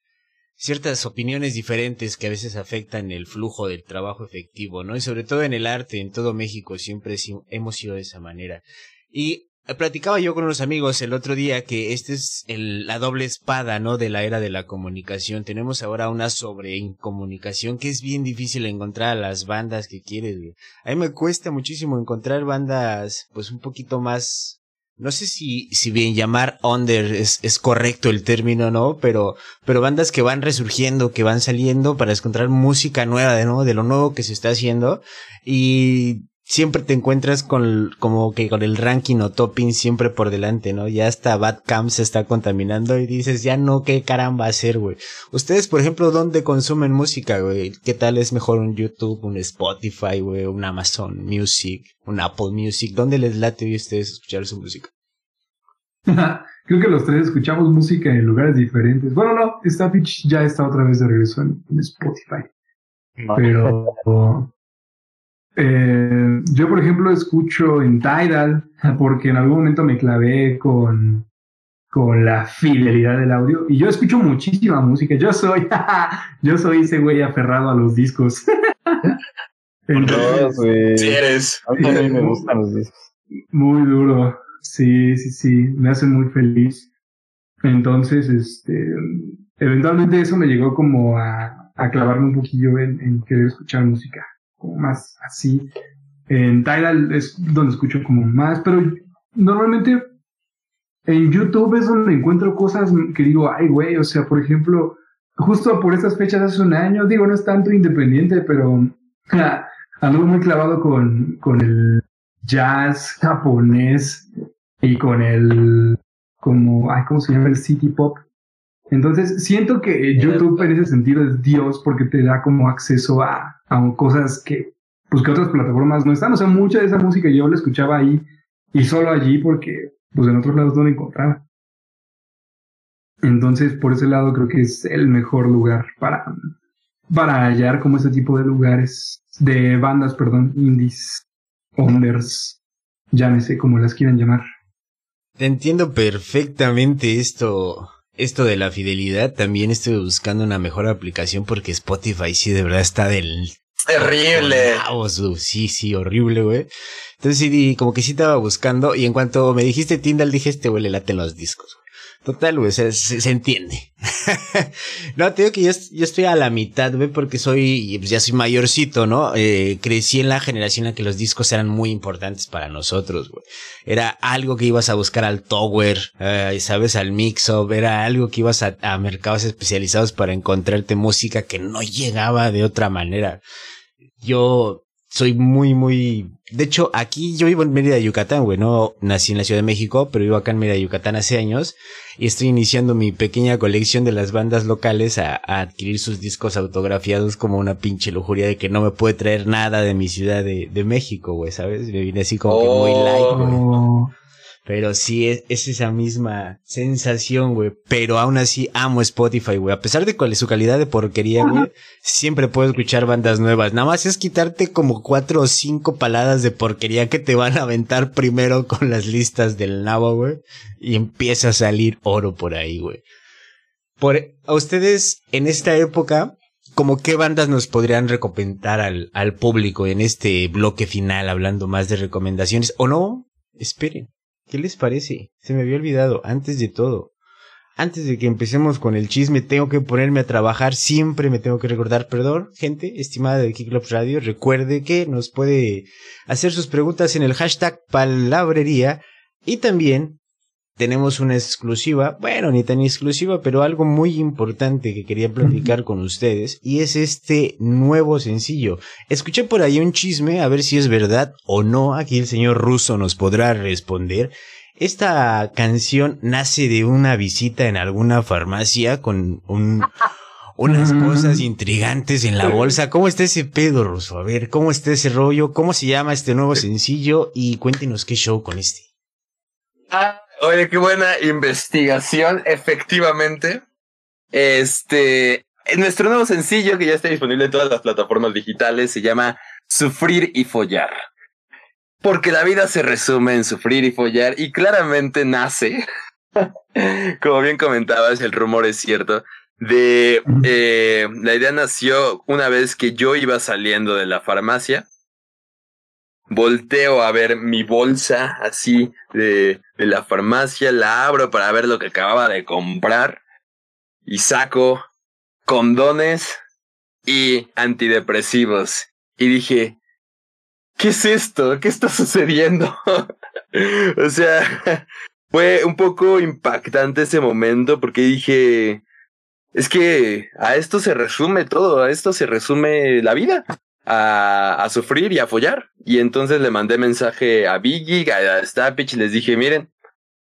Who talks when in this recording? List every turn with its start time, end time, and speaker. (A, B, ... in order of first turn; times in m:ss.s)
0:00.6-0:54.9 A
0:56.1-1:02.5 B
1:03.2-1:03.9 C
1:03.3-1:04.5 B
1:05.6-1:11.3 B
1:11.9-1:19.1 B
1:19.9-1:20.6 B
1:20.0-1:20.4 D
1:20.0-1:23.0 C
1:21.0-1:22.1 D
1:21.8-1:22.5 B
1:23.5-1:26.9 B
1:27.6-1:35.7 B
1:36.3-1:40.1 B
1:41.1-1:54.3 B
1:54.8-1:58.2 B
1:58.9-2:11.4 B
2:00.2-2:00.7 D
2:13.2-2:16.5 B
2:17.1-2:21.2 B
2:21.8-2:22.6 B
2:23.1-2:24.4 B
2:25.4-2:36.7 A
2:33.9-2:34.8 D
2:37.2-3:03.4 A
3:04.2-3:23.6 A
3:22.4-3:23.4 D
3:23.3-3:24.1 B
3:24.6-3:43.0 A
3:44.0-3:57.1 A
3:57.8-4:10.2 A
4:10.8-4:29.9 A
4:15.4-4:15.7 B
4:30.6-4:38.8 A
4:30.7-4:31.4 B
4:39.9-4:43.6 D
4:44.3-4:51.0 D
4:52.0-4:55.8 D
4:56.4-5:04.8 D
5:06.3-5:13.2 D
5:14.0-5:14.8 D
5:15.4-5:16.4 D
5:17.0-5:19.8 D
5:20.8-5:28.8 D
5:29.5-5:39.7 D